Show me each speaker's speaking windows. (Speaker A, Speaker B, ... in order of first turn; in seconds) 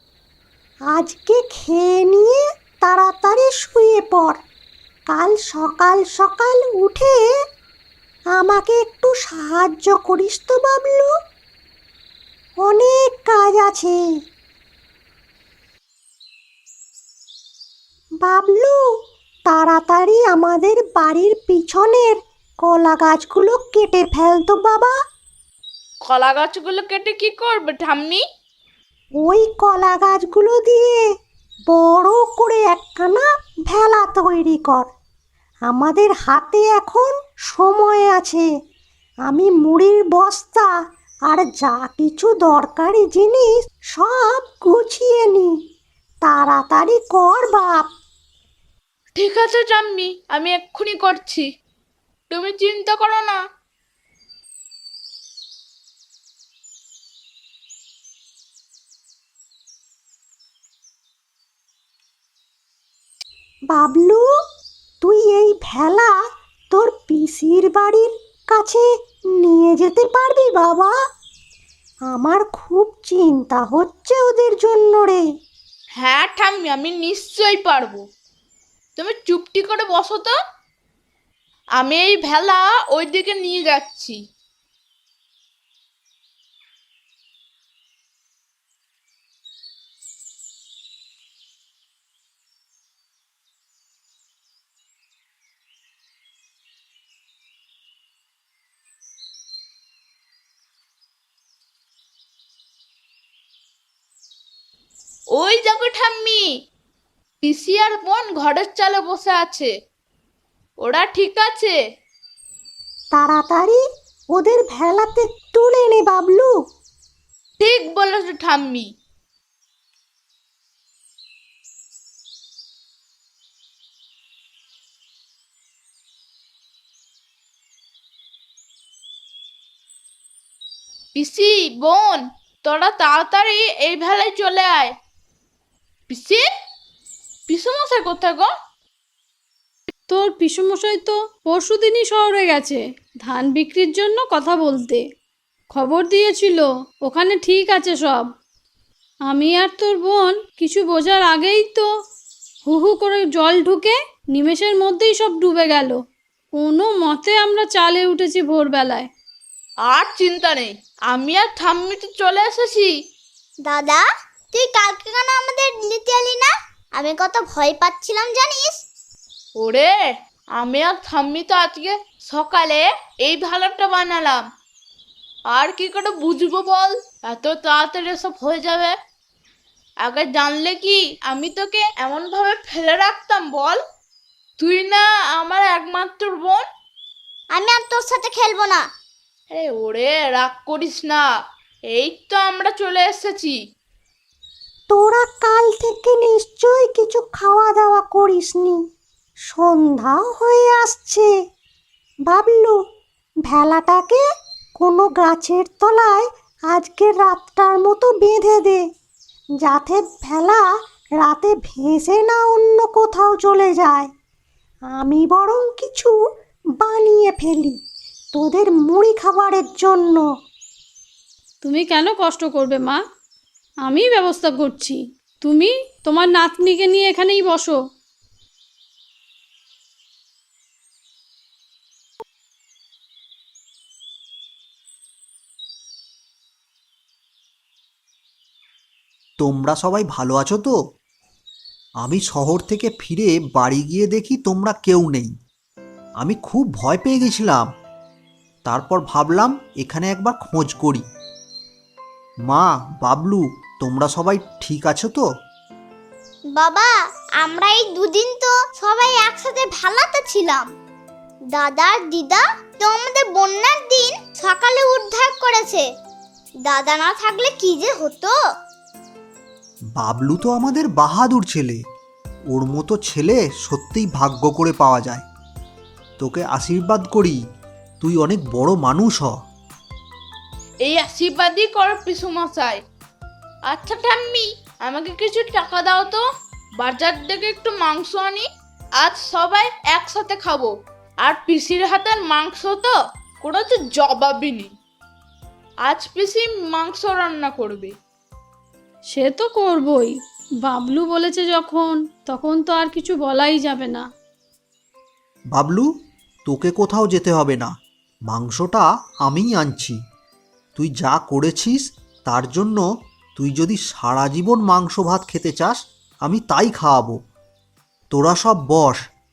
Speaker A: 0.9-4.4, 5.1-7.2, 8.3-11.1, 12.6-14.0, 18.2-18.8, 19.5-24.9, 29.2-31.0, 31.7-34.9, 35.7-38.5, 39.3-40.7, 41.3-45.5, 46.2-47.9, 63.7-64.2, 65.0-66.1, 66.7-68.8, 69.4-70.9, 72.1-75.2, 113.1-113.8, 114.3-116.5, 194.9-198.8, 199.5-201.3, 202.3-202.8, 203.5-204.2, 204.8-208.8, 209.6-210.6, 211.2-214.1, 214.9-216.1, 216.8-217.8, 218.3-220.2
Speaker B: 26.0-28.2, 49.1-51.4, 52.3-53.4, 76.0-78.0, 79.0-80.3, 81.8-84.2, 105.3-106.4, 107.4-109.7, 110.8-111.7, 117.6-118.9, 131.1-134.9, 136.1-136.4, 137.5-138.5, 159.9-162.9, 169.6-169.9, 170.6-174.4, 175.5-178.9, 180.0-183.8, 184.6-186.6, 189.5-191.2, 191.9-193.6, 280.8-282.8, 283.7-286.2, 286.8-288.4, 289.0-290.7, 291.2-294.7, 295.8-297.9
Speaker C: 140.1-145.0, 145.7-148.3, 149.2-151.8, 152.7-156.0, 156.5-159.1, 221.6-223.0, 223.8-227.8, 299.1-304.0
Speaker D: 163.6-168.8, 187.5-188.8, 256.6-260.7, 261.5-265.8, 266.6-268.3
Speaker E: 239.4-240.8, 242.0-245.3, 246.2-247.7, 248.6-251.0, 252.4-255.3, 270.0-271.8, 272.5-275.2, 276.2-277.4, 278.0-279.3, 305.5-305.9, 306.4-307.7, 308.3-310.0, 310.8-312.8, 313.4-317.2, 318.1-319.0